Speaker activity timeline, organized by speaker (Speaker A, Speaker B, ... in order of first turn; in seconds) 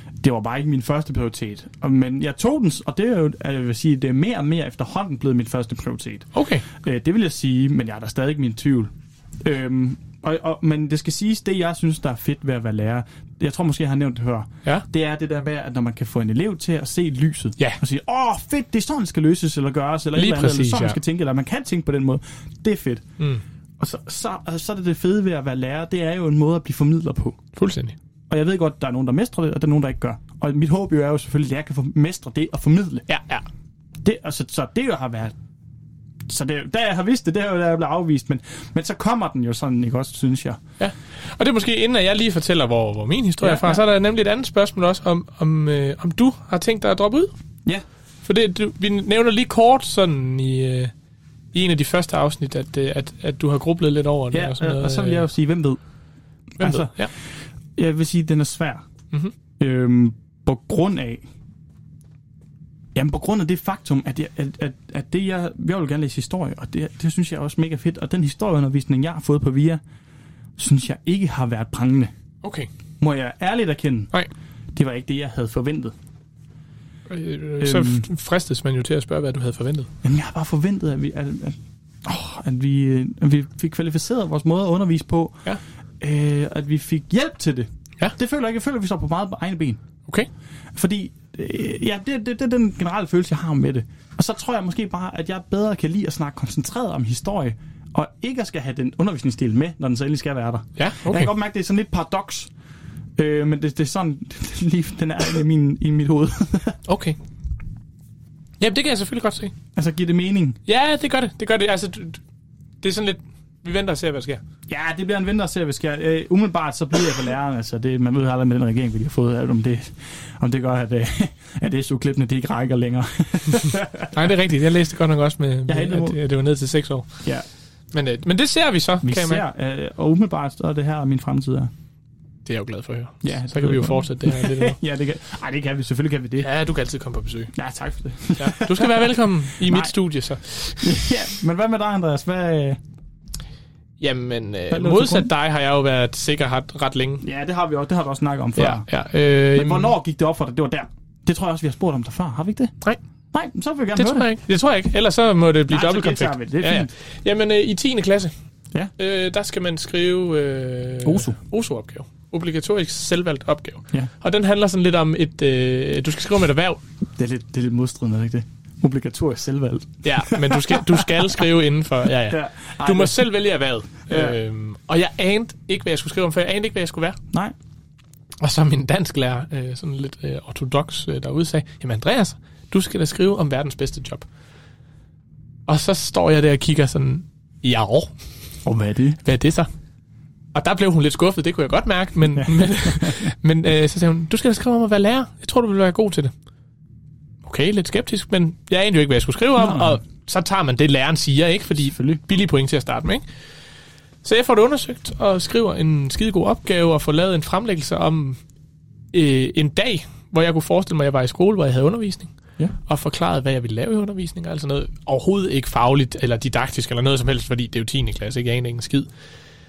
Speaker A: 0.2-8.9, 9.4-23.0, 23.8-27.4, 28.3-33.1, 34.0-35.4, 36.3-40.6, 43.4-43.8, 54.3-55.8, 56.6-57.1, 57.8-58.8, 59.6-61.2, 63.0-69.8, 70.6-72.1, 73.0-74.1, 74.7-75.9, 77.6-78.1, 80.0-85.5, 86.0-89.8, 90.8-102.5, 103.2-106.8, 109.8-110.6, 114.7-124.3, 125.7-126.2, 129.0-131.7, 133.2-136.5, 137.6-139.9, 140.8-142.8, 144.7-145.3, 147.2-148.9, 149.5-152.7, 153.3-154.3, 155.7-156.9, 161.0-161.4, 167.2-171.5, 172.2-173.2, 174.1-174.4, 188.6-189.2, 192.9-193.2, 199.6-200.0, 201.9-202.2
Speaker B: 6.3-6.7, 20.1-21.0, 27.5-28.0, 33.1-33.5, 40.8-47.3, 48.2-50.9, 51.5-55.3, 56.6-57.1, 72.4-72.7, 77.1-79.9, 100.8-101.3, 106.9-107.2, 108.6-109.5, 110.7-112.2, 112.8-114.4, 124.1-127.1, 127.9-129.4, 132.4-134.8, 136.4-137.5, 138.4-141.2, 144.0-147.2, 148.6-150.0, 153.9-158.3, 159.0-166.8, 170.0-177.2, 178.4-184.3, 185.7-188.1, 189.2-189.7, 190.5-196.3, 197.4-203.2, 204.2-208.4, 209.1-212.3, 212.9-219.1